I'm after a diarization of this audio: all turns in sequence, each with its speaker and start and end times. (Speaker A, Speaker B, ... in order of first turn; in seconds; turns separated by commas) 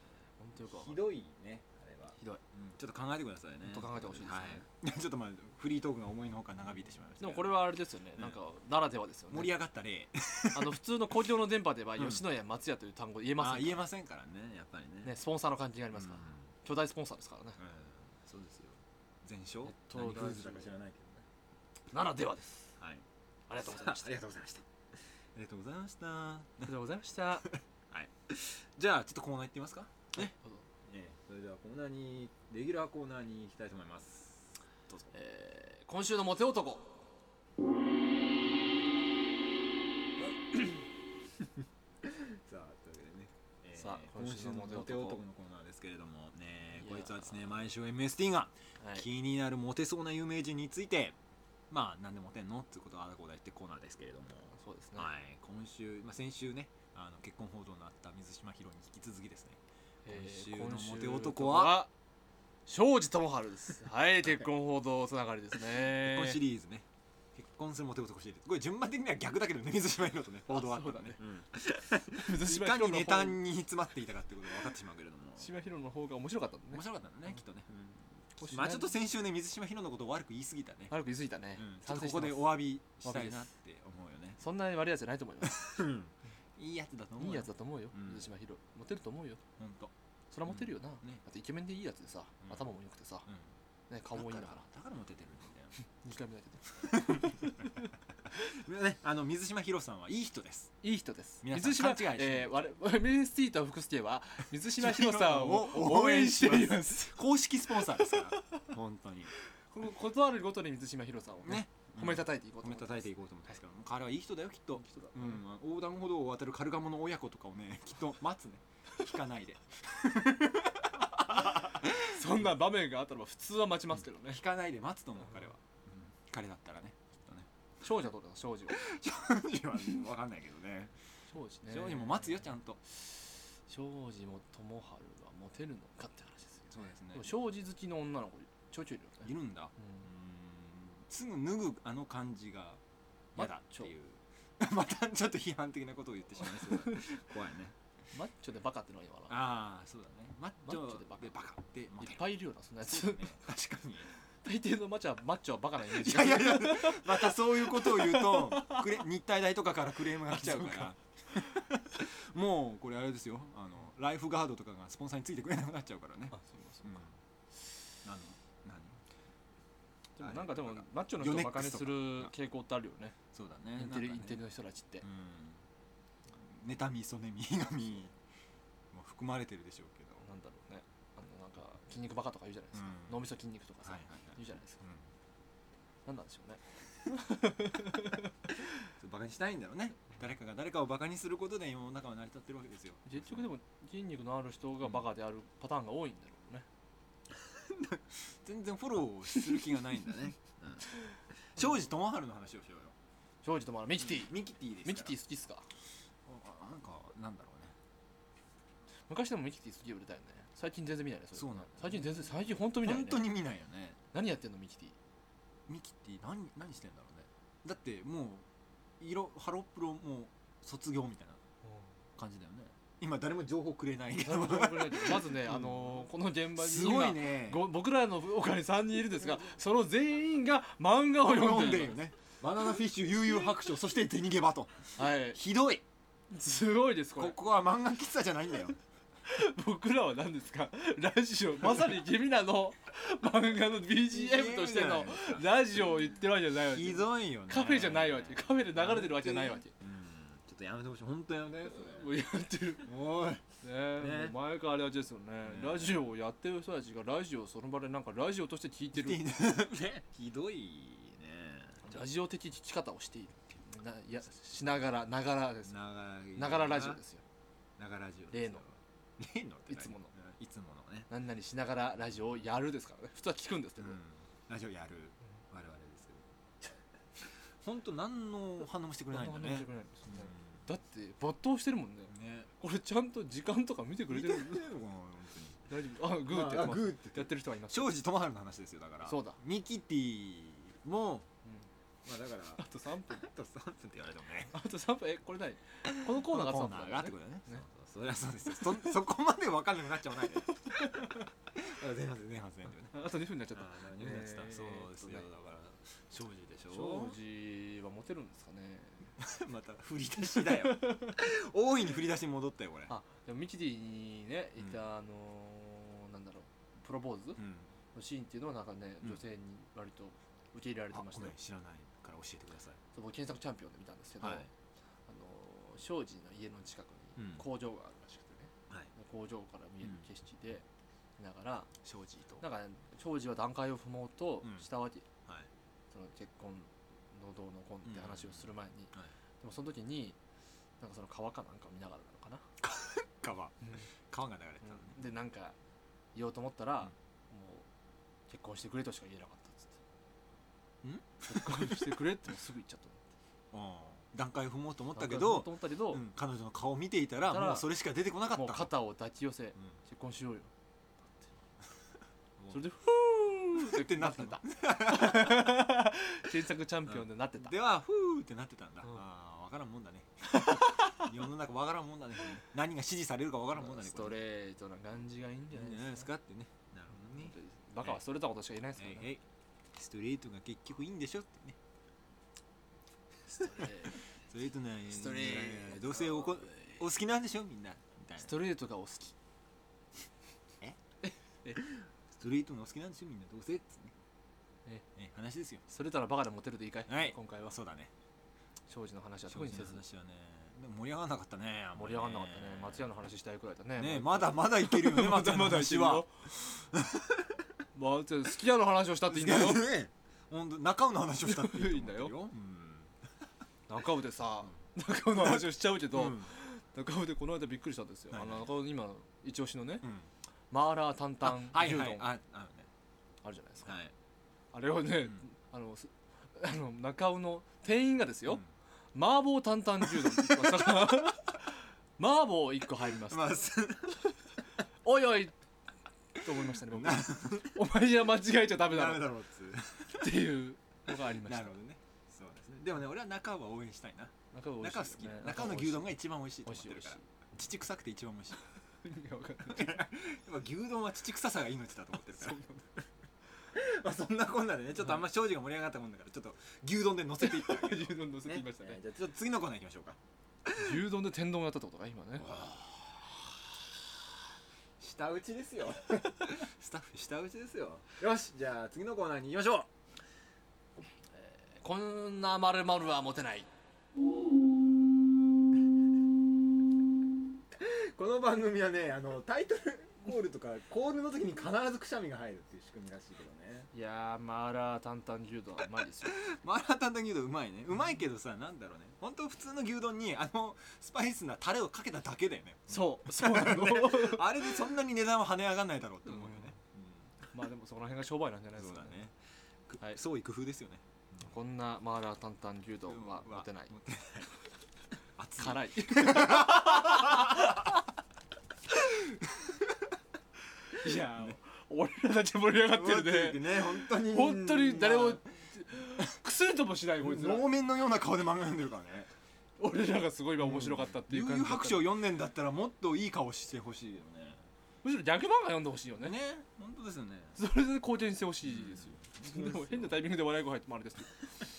Speaker A: 0.4-1.0, Speaker B: 0.6-7.6, Speaker A: 3.6-4.6, Speaker A: 7.2-9.5, Speaker B: 9.3-10.8, Speaker A: 10.5-13.8, Speaker B: 12.0-12.2, Speaker B: 13.4-15.1, Speaker A: 15.0-17.6, Speaker B: 15.9-16.4, Speaker B: 17.6-21.2, Speaker A: 19.6-20.7, Speaker A: 21.9-22.7, Speaker B: 22.8-23.0, Speaker A: 23.5-24.1, Speaker B: 23.6-24.6, Speaker B: 25.3-26.7, Speaker A: 26.6-27.5, Speaker B: 27.5-30.3, Speaker A: 30.1-30.6, Speaker B: 30.8-35.1, Speaker A: 35.1-37.1, Speaker B: 42.0-51.1, Speaker A: 43.8-45.2, Speaker A: 46.7-47.4, Speaker A: 48.8-49.0, Speaker B: 51.7-61.8, Speaker A: 54.5-55.1, Speaker A: 60.0-61.9, Speaker A: 62.7-66.4, Speaker B: 65.7-75.5, Speaker A: 70.5-71.2, Speaker A: 72.1-73.4, Speaker A: 75.4-76.8, Speaker B: 76.7-80.9, Speaker A: 78.4-78.9, Speaker A: 80.9-83.5, Speaker B: 81.6-84.4, Speaker A: 84.4-85.8, Speaker B: 85.4-88.2, Speaker A: 87.2-89.4, Speaker B: 89.6-89.9, Speaker A: 90.3-93.3, Speaker B: 90.5-91.2, Speaker A: 93.9-94.7, Speaker B: 94.1-95.7, Speaker A: 96.0-97.9, Speaker B: 96.8-97.6, Speaker B: 98.3-100.7, Speaker A: 100.8-107.2, Speaker B: 101.4-102.5, Speaker B: 104.7-109.3, Speaker A: 108.0-108.6, Speaker A: 109.7-113.1, Speaker B: 111.4-122.2, Speaker A: 114.8-115.4, Speaker A: 121.9-124.4, Speaker B: 124.2-127.5, Speaker A: 127.8-128.8, Speaker B: 128.7-130.9, Speaker A: 131.3-140.1, Speaker B: 131.7-132.8, Speaker B: 136.7-137.3, Speaker B: 139.2-142.8, Speaker A: 143.3-143.9, Speaker B: 143.3-147.7, Speaker A: 146.6-147.1, Speaker A: 148.1-149.4, Speaker B: 149.3-154.1, Speaker A: 150.6-151.4, Speaker A: 152.0-153.4, Speaker A: 154.4-159.0, Speaker B: 155.8-167.1, Speaker A: 160.3-160.9, Speaker A: 166.3-167.0, Speaker B: 168.0-169.0, Speaker A: 170.2-173.2, Speaker B: 170.2-172.3, Speaker B: 173.3-174.4, Speaker A: 173.8-175.1, Speaker B: 175.0-175.6, Speaker B: 176.3-178.1, Speaker B: 178.9-180.2, Speaker A: 180.2-184.8, Speaker B: 182.7-183.2, Speaker B: 183.8-185.1, Speaker A: 186.1-188.3, Speaker B: 188.9-193.4, Speaker A: 193.1-196.7, Speaker B: 197.3-202.9, Speaker A: 203.4-205.7, Speaker B: 204.0-205.2, Speaker B: 206.2-207.7, Speaker A: 209.1-213.2, Speaker B: 211.3-212.2, Speaker B: 212.7-214.0, Speaker A: 214.1-214.9, Speaker B: 215.7-218.4, Speaker B: 219.0-221.4, Speaker A: 221.6-221.9, Speaker B: 222.2-227.6, Speaker A: 224.2-231.9, Speaker B: 231.2-235.8, Speaker A: 235.0-235.4, Speaker A: 236.3-237.3, Speaker B: 237.2-238.8, Speaker A: 239.2-249.7, Speaker B: 244.1-245.7, Speaker B: 246.6-252.1, Speaker A: 251.7-252.9, Speaker B: 252.8-253.4, Speaker A: 253.6-259.2, Speaker B: 254.0-254.3, Speaker B: 255.4-256.0, Speaker B: 258.9-261.9, Speaker A: 261.8-265.7, Speaker B: 265.7-267.0, Speaker A: 266.4-267.2, Speaker B: 267.8-271.1, Speaker A: 268.3-268.6, Speaker A: 269.7-270.1, Speaker A: 271.1-274.0, Speaker B: 273.8-280.6, Speaker A: 279.1-284.7, Speaker B: 282.1-282.5, Speaker B: 284.1-285.6, Speaker A: 285.7-287.9, Speaker B: 286.2-291.3, Speaker A: 289.0-289.4, Speaker B: 292.0-294.5, Speaker A: 292.6-293.2, Speaker A: 294.5-297.6, Speaker B: 295.9-302.9, Speaker A: 300.6-301.2, Speaker A: 302.9-305.3, Speaker B: 303.5-307.1, Speaker A: 306.7-309.1, Speaker B: 309.2-312.9, Speaker A: 310.3-311.2, Speaker A: 312.9-317.4, Speaker B: 317.4-317.7, Speaker A: 317.9-321.4, Speaker B: 320.9-322.8, Speaker A: 322.9-324.5, Speaker B: 324.2-324.5, Speaker A: 325.1-330.6, Speaker B: 327.2-327.4, Speaker A: 331.2-331.7, Speaker B: 331.8-332.4, Speaker A: 332.4-335.1, Speaker A: 335.9-340.2, Speaker B: 337.8-339.1, Speaker A: 340.8-342.4, Speaker B: 342.6-345.0, Speaker A: 343.6-343.9, Speaker A: 344.6-345.6, Speaker A: 346.1-347.6, Speaker A: 348.3-349.8, Speaker B: 350.8-351.9, Speaker A: 351.3-353.0, Speaker B: 353.5-358.7, Speaker A: 354.9-356.0, Speaker A: 357.3-357.6, Speaker A: 358.3-360.5, Speaker A: 362.5-367.5, Speaker B: 363.6-365.6, Speaker B: 366.9-374.2, Speaker A: 370.3-371.0, Speaker A: 373.5-376.1, Speaker B: 375.5-378.0, Speaker A: 377.1-379.1, Speaker B: 378.8-379.2, Speaker B: 379.7-381.6, Speaker A: 383.3-384.1, Speaker B: 384.2-388.4, Speaker A: 384.9-386.8, Speaker A: 388.2-389.1, Speaker A: 391.0-391.6, Speaker B: 392.1-393.9, Speaker B: 394.9-395.6, Speaker A: 395.7-397.6, Speaker B: 396.9-397.9, Speaker A: 398.7-399.8, Speaker B: 399.3-402.9, Speaker A: 401.8-406.1, Speaker B: 403.8-407.3, Speaker A: 407.7-409.7, Speaker B: 409.1-412.9, Speaker A: 411.2-412.1, Speaker A: 413.7-419.9, Speaker B: 415.1-416.3, Speaker B: 418.1-418.5, Speaker B: 419.8-420.1, Speaker A: 420.5-422.1, Speaker B: 421.2-422.7, Speaker A: 423.2-423.8, Speaker B: 423.6-423.9, Speaker A: 424.5-428.4, Speaker A: 428.9-433.4, Speaker B: 429.9-430.6, Speaker B: 433.0-434.0, Speaker A: 434.8-435.4, Speaker A: 436.1-439.1, Speaker B: 436.6-437.6, Speaker B: 438.6-440.1, Speaker A: 439.9-441.6, Speaker B: 441.1-448.4, Speaker A: 444.3-447.0, Speaker A: 448.8-449.8, Speaker B: 449.4-452.4, Speaker A: 452.1-452.6, Speaker B: 453.5-460.8, Speaker A: 457.2-458.8, Speaker A: 460.6-462.4, Speaker B: 462.2-463.2, Speaker B: 464.8-469.7, Speaker A: 471.2-473.5, Speaker B: 477.5-483.7, Speaker A: 483.7-486.2, Speaker B: 486.0-497.1, Speaker A: 492.7-494.6, Speaker A: 496.1-496.5, Speaker A: 497.3-499.0, Speaker B: 498.6-499.1, Speaker B: 499.7-501.2, Speaker A: 501.2-503.7, Speaker B: 502.9-504.3, Speaker B: 505.2-507.6, Speaker A: 505.4-507.7, Speaker B: 508.7-509.7, Speaker A: 510.8-517.5, Speaker B: 510.8-511.4, Speaker B: 512.6-515.2, Speaker B: 517.0-519.1, Speaker A: 519.6-521.9, Speaker B: 520.4-524.4, Speaker A: 524.8-526.1, Speaker B: 526.0-527.4, Speaker A: 527.4-531.3, Speaker B: 528.4-530.0